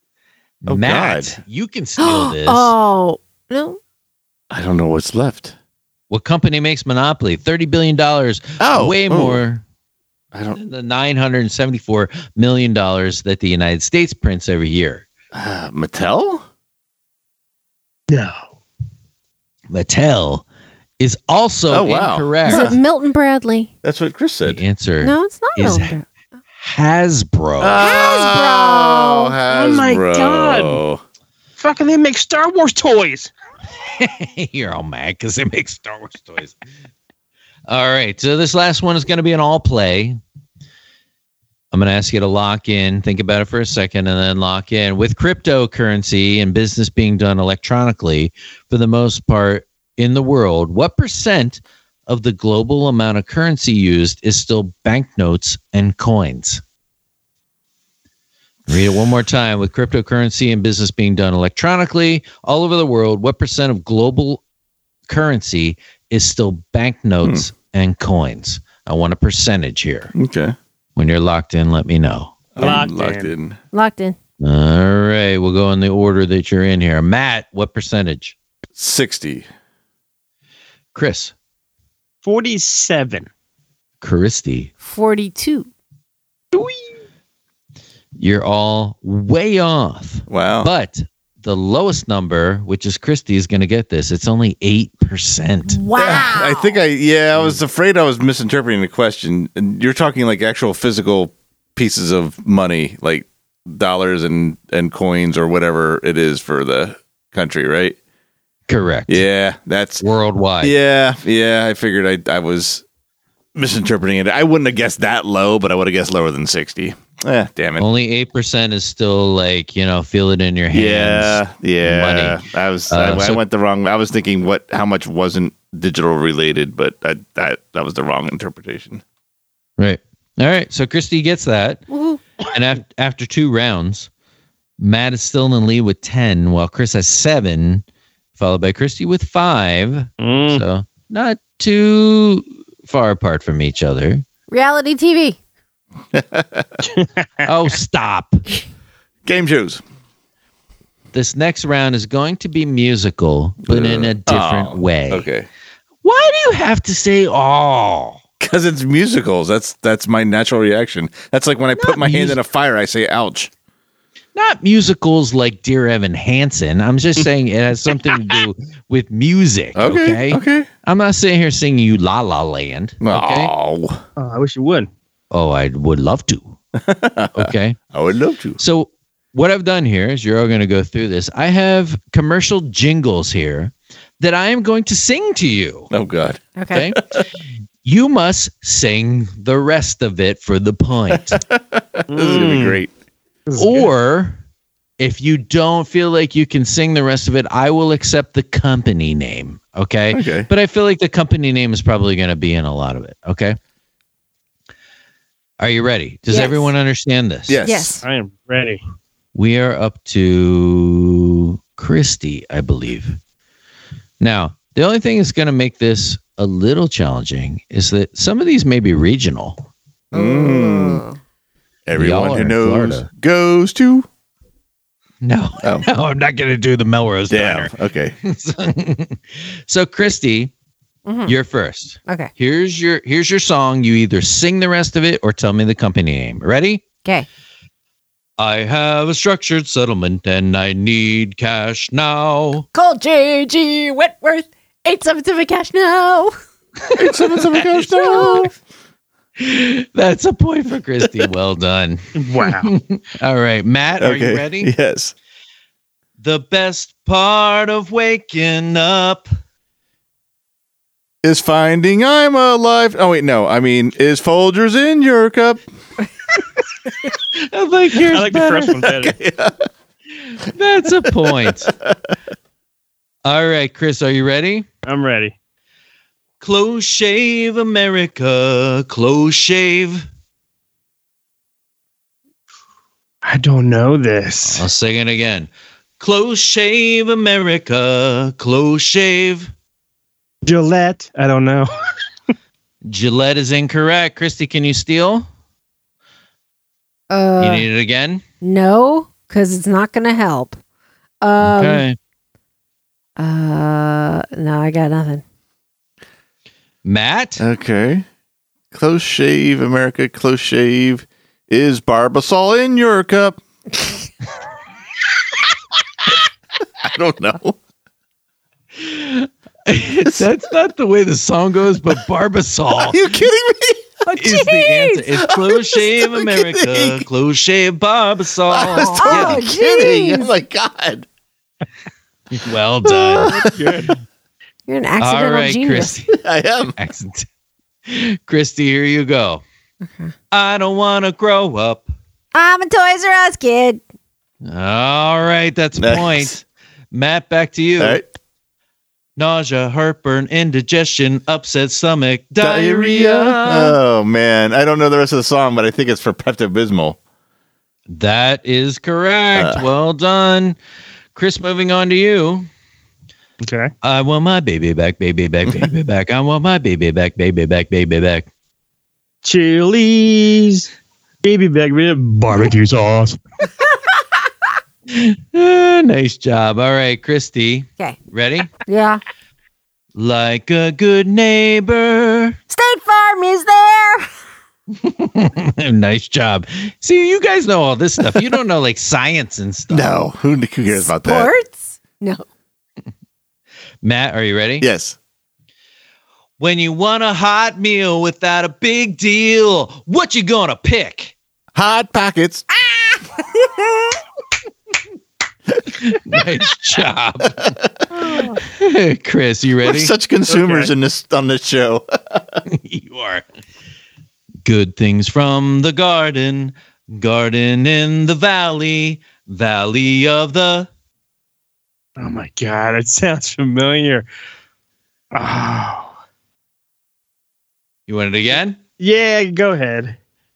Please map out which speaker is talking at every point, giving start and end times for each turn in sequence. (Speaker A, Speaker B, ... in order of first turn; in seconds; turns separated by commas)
Speaker A: 0.6-2.7, Speaker B: 0.7-1.4, Speaker C: 2.0-3.8, Speaker B: 4.5-5.5, Speaker A: 6.1-9.6, Speaker B: 8.6-9.4, Speaker B: 10.3-10.6, Speaker A: 10.6-15.1, Speaker B: 15.3-16.4, Speaker D: 18.1-18.4, Speaker A: 19.7-20.5, Speaker A: 21.0-22.8, Speaker B: 21.7-22.8, Speaker C: 22.5-23.7, Speaker B: 23.8-24.6, Speaker A: 24.5-26.0, Speaker C: 25.0-26.1, Speaker A: 26.6-28.0, Speaker B: 27.6-31.0, Speaker C: 27.8-29.4, Speaker D: 29.5-30.8, Speaker D: 31.6-33.3, Speaker A: 33.8-36.6, Speaker A: 37.7-40.2, Speaker A: 41.7-56.6, Speaker A: 58.7-64.4, Speaker A: 65.1-70.1, Speaker B: 70.1-70.6, Speaker A: 71.0-72.5, Speaker B: 72.5-73.6, Speaker D: 72.6-73.3, Speaker C: 73.7-74.2, Speaker A: 74.4-78.4, Speaker B: 78.8-79.5, Speaker A: 80.9-81.3, Speaker D: 82.2-83.3, Speaker A: 84.0-84.7, Speaker C: 84.8-85.7, Speaker D: 86.5-86.8, Speaker A: 88.2-95.8, Speaker B: 90.3-90.7, Speaker C: 95.7-96.8, Speaker B: 96.0-108.0, Speaker A: 108.7-109.2, Speaker B: 109.1-110.0, Speaker A: 110.0-110.7, Speaker B: 110.6-112.8, Speaker B: 113.5-117.8, Speaker A: 117.8-123.4, Speaker B: 120.7-129.0, Speaker A: 129.8-131.9, Speaker C: 131.9-132.2, Speaker A: 132.4-134.1, Speaker A: 134.8-137.8, Speaker A: 138.4-144.2, Speaker D: 140.2-140.6, Speaker C: 144.5-145.4, Speaker B: 146.1-146.8, Speaker D: 146.9-147.3, Speaker A: 147.4-148.4, Speaker B: 149.2-149.8, Speaker A: 151.1-155.3, Speaker B: 153.6-155.5, Speaker A: 156.0-158.2, Speaker B: 158.4-163.5, Speaker A: 161.8-162.4, Speaker A: 164.3-173.5, Speaker B: 169.8-170.7, Speaker B: 173.0-174.0, Speaker D: 174.2-174.9, Speaker A: 175.3-176.6, Speaker B: 176.8-178.6, Speaker A: 177.3-177.8, Speaker A: 178.6-185.9, Speaker B: 185.9-187.2, Speaker C: 186.6-186.9, Speaker A: 186.7-187.0, Speaker A: 187.8-191.4, Speaker B: 191.1-192.9, Speaker D: 192.1-192.8, Speaker D: 193.5-193.9, Speaker A: 193.6-194.4, Speaker A: 195.0-203.6, Speaker B: 200.1-200.5, Speaker A: 205.6-207.6, Speaker C: 206.3-206.7, Speaker B: 207.5-208.0, Speaker C: 207.6-208.0, Speaker D: 208.0-208.8, Speaker A: 209.3-213.2, Speaker A: 214.2-219.6, Speaker B: 220.1-221.0, Speaker C: 220.1-221.2, Speaker B: 221.9-224.1, Speaker A: 221.9-223.1, Speaker A: 225.2-230.5, Speaker B: 225.6-225.9, Speaker B: 227.3-228.2, Speaker C: 231.1-231.3, Speaker A: 231.3-236.8, Speaker A: 238.4-242.7, Speaker C: 242.7-246.3, Speaker B: 246.9-248.5, Speaker C: 247.9-248.5, Speaker A: 248.1-248.5, Speaker A: 249.4-254.7, Speaker D: 252.2-252.7, Speaker B: 254.0-255.1, Speaker A: 256.2-259.3, Speaker B: 261.2-265.6, Speaker A: 267.3-268.8, Speaker D: 268.1-269.1, Speaker B: 268.8-269.6, Speaker A: 270.3-271.7, Speaker B: 271.1-272.1, Speaker A: 273.2-274.7, Speaker D: 274.8-275.4, Speaker A: 276.4-280.1, Speaker D: 283.2-284.7, Speaker A: 284.4-289.5, Speaker D: 290.4-291.7, Speaker A: 292.9-295.3, Speaker C: 297.1-297.7, Speaker A: 297.4-298.2, Speaker C: 298.4-300.6, Speaker C: 301.2-301.8, Speaker A: 301.4-302.0, Speaker C: 303.2-305.2, Speaker A: 306.9-307.4, Speaker B: 307.4-308.1, Speaker B: 308.7-313.4, Speaker B: 316.8-317.6, Speaker A: 318.8-323.1, Speaker B: 322.8-323.9, Speaker C: 324.1-325.1, Speaker A: 324.1-329.4, Speaker B: 325.2-327.1, Speaker B: 328.5-331.1, Speaker C: 328.7-330.3, Speaker A: 332.3-333.4, Speaker B: 332.9-333.9, Speaker D: 333.5-333.9, Speaker C: 334.7-336.0, Speaker A: 335.0-336.2, Speaker B: 336.1-336.8, Speaker A: 336.7-337.3, Speaker A: 337.9-339.4, Speaker C: 339.9-340.1, Speaker A: 340.3-341.9, Speaker C: 342.3-343.8, Speaker A: 344.4-346.4, Speaker B: 345.8-346.4, Speaker A: 346.9-348.0, Speaker B: 347.8-348.1, Speaker A: 349.2-353.8, Speaker B: 352.4-357.0, Speaker A: 357.9-360.6, Speaker B: 359.4-359.6, Speaker A: 361.1-362.5, Speaker D: 363.4-363.7, Speaker A: 363.8-368.3, Speaker D: 369.2-370.7, Speaker D: 371.2-373.2, Speaker A: 374.9-378.5, Speaker C: 378.6-379.0, Speaker A: 379.9-382.4, Speaker C: 382.5-384.1, Speaker A: 384.8-390.0, Speaker B: 389.7-391.3, Speaker C: 390.7-392.2, Speaker A: 393.8-394.7, Speaker B: 394.6-395.0, Speaker A: 396.4-401.1, Speaker B: 401.5-402.5, Speaker C: 403.2-403.9, Speaker A: 405.6-407.6, Speaker B: 407.4-407.7, Speaker C: 408.0-408.4, Speaker A: 408.4-409.9, Speaker B: 409.6-412.4, Speaker D: 410.3-410.7, Speaker A: 412.5-413.2, Speaker A: 414.4-420.7, Speaker D: 422.0-424.1, Speaker D: 425.1-425.9, Speaker A: 427.9-428.6, Speaker D: 428.8-429.9